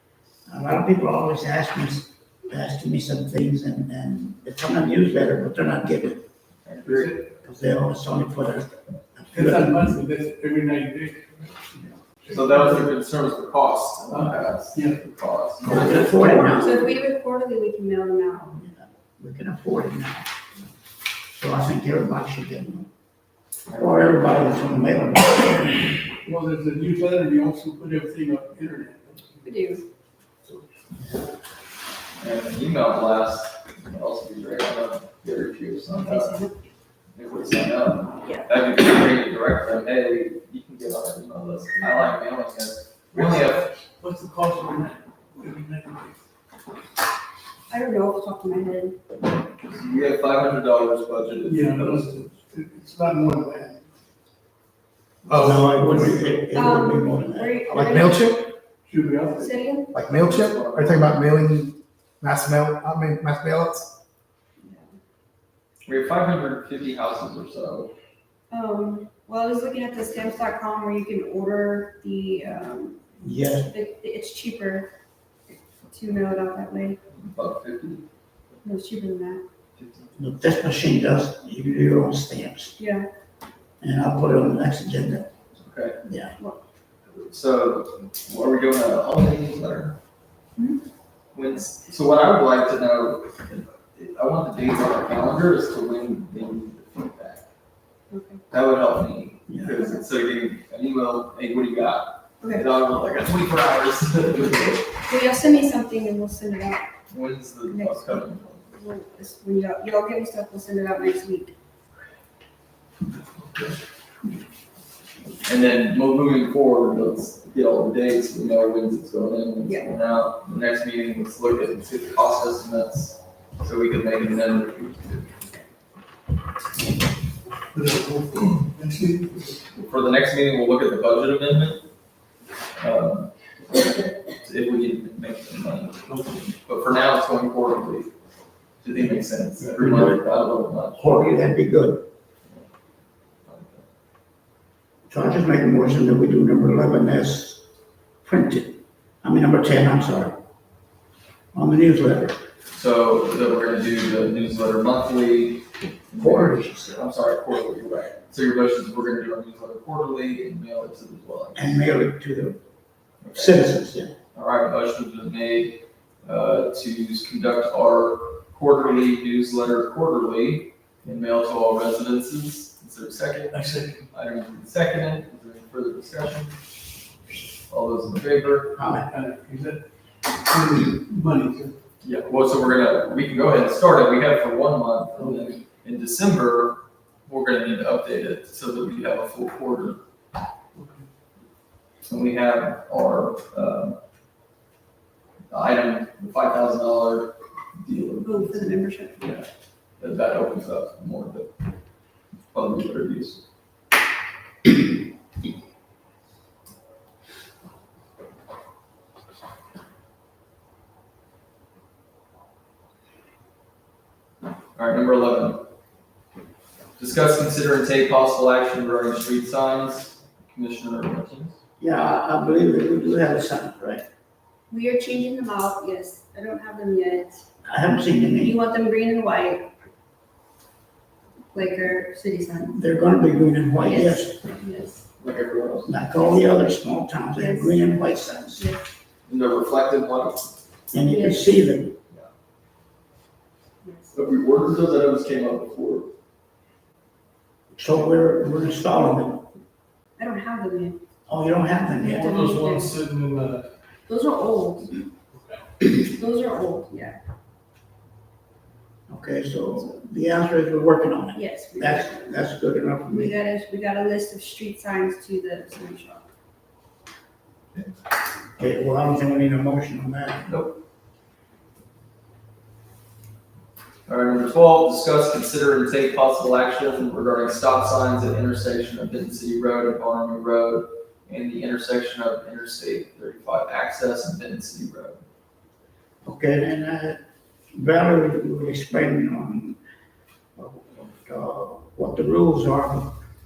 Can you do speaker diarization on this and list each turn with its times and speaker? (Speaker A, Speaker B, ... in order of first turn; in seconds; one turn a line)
Speaker A: 0.5-6.2
Speaker B: 6.6-7.3
Speaker C: 6.8-7.2
Speaker A: 7.4-9.9
Speaker C: 9.3-11.7
Speaker C: 12.2-12.9
Speaker B: 12.3-16.3
Speaker C: 14.1-15.0
Speaker A: 15.6-16.9
Speaker C: 15.7-16.1
Speaker D: 15.7-18.6
Speaker A: 18.6-20.3
Speaker A: 21.3-22.9
Speaker B: 23.7-24.2
Speaker A: 23.8-26.1
Speaker C: 26.2-29.4
Speaker D: 29.4-29.8
Speaker B: 32.2-36.4
Speaker D: 36.0-36.5
Speaker B: 37.1-43.7
Speaker D: 38.2-38.5
Speaker C: 43.1-46.1
Speaker D: 47.7-49.0
Speaker B: 49.6-52.2
Speaker C: 51.5-53.8
Speaker C: 55.3-56.5
Speaker E: 55.3-56.2
Speaker A: 55.3-57.5
Speaker D: 56.5-58.3
Speaker E: 57.7-58.5
Speaker C: 58.9-59.5
Speaker D: 59.3-59.9
Speaker E: 59.9-63.9
Speaker B: 60.0-61.2
Speaker B: 65.9-67.9
Speaker D: 68.5-73.0
Speaker A: 73.2-73.7
Speaker D: 73.7-74.9
Speaker D: 75.5-77.0
Speaker B: 77.1-78.0
Speaker D: 78.6-79.4
Speaker B: 79.8-80.1
Speaker A: 80.2-82.8
Speaker D: 82.8-83.1
Speaker A: 83.8-85.3
Speaker B: 85.6-86.0
Speaker A: 86.0-86.3
Speaker B: 87.1-90.0
Speaker D: 90.6-90.8
Speaker B: 91.3-97.5
Speaker D: 98.1-98.4
Speaker B: 98.5-104.9
Speaker A: 99.5-99.8
Speaker D: 102.4-102.7
Speaker D: 105.0-106.9
Speaker B: 107.1-108.6
Speaker D: 107.7-111.5
Speaker B: 115.4-125.3
Speaker D: 119.6-119.9
Speaker C: 127.7-129.6
Speaker B: 129.8-131.8
Speaker B: 132.8-133.3
Speaker B: 134.4-138.1
Speaker B: 138.8-141.2
Speaker A: 139.8-140.2
Speaker A: 141.0-142.0
Speaker B: 143.5-143.8
Speaker A: 145.1-147.6
Speaker A: 148.2-150.4
Speaker A: 151.5-152.4
Speaker B: 152.7-161.8
Speaker A: 156.2-157.0
Speaker A: 161.6-162.6
Speaker B: 163.2-163.7
Speaker A: 163.3-164.1
Speaker B: 164.3-173.6
Speaker C: 173.5-174.1
Speaker B: 174.1-176.5
Speaker B: 177.7-178.8
Speaker A: 178.8-179.1
Speaker C: 179.1-179.8
Speaker C: 180.4-181.8
Speaker B: 182.0-190.0
Speaker C: 185.2-185.5
Speaker C: 190.7-191.1
Speaker B: 192.0-194.0
Speaker B: 195.5-198.7
Speaker D: 198.2-199.3
Speaker B: 199.2-199.4
Speaker B: 200.0-201.5
Speaker B: 202.5-203.4
Speaker B: 214.8-215.6
Speaker B: 217.0-221.6
Speaker A: 221.8-224.0
Speaker D: 224.7-227.4
Speaker A: 227.6-228.6
Speaker D: 228.4-229.7
Speaker D: 231.5-232.8
Speaker A: 232.7-234.4
Speaker D: 233.8-235.1
Speaker B: 235.2-235.9
Speaker A: 235.8-238.7
Speaker D: 237.3-238.0
Speaker D: 238.6-238.8
Speaker B: 239.3-240.5
Speaker A: 240.9-241.9
Speaker D: 241.0-241.7
Speaker D: 243.8-244.2
Speaker B: 244.1-246.1
Speaker A: 247.8-249.5
Speaker D: 250.2-251.0
Speaker A: 251.3-252.5
Speaker D: 252.0-252.9
Speaker C: 252.1-253.7
Speaker D: 254.1-255.0
Speaker C: 255.3-255.9
Speaker D: 256.0-257.2
Speaker A: 259.1-263.4
Speaker D: 261.4-262.4
Speaker D: 263.1-266.3
Speaker A: 268.6-270.5
Speaker B: 270.5-270.8
Speaker B: 274.1-285.2
Speaker A: 286.2-287.2
Speaker A: 287.7-289.8
Speaker A: 290.6-293.1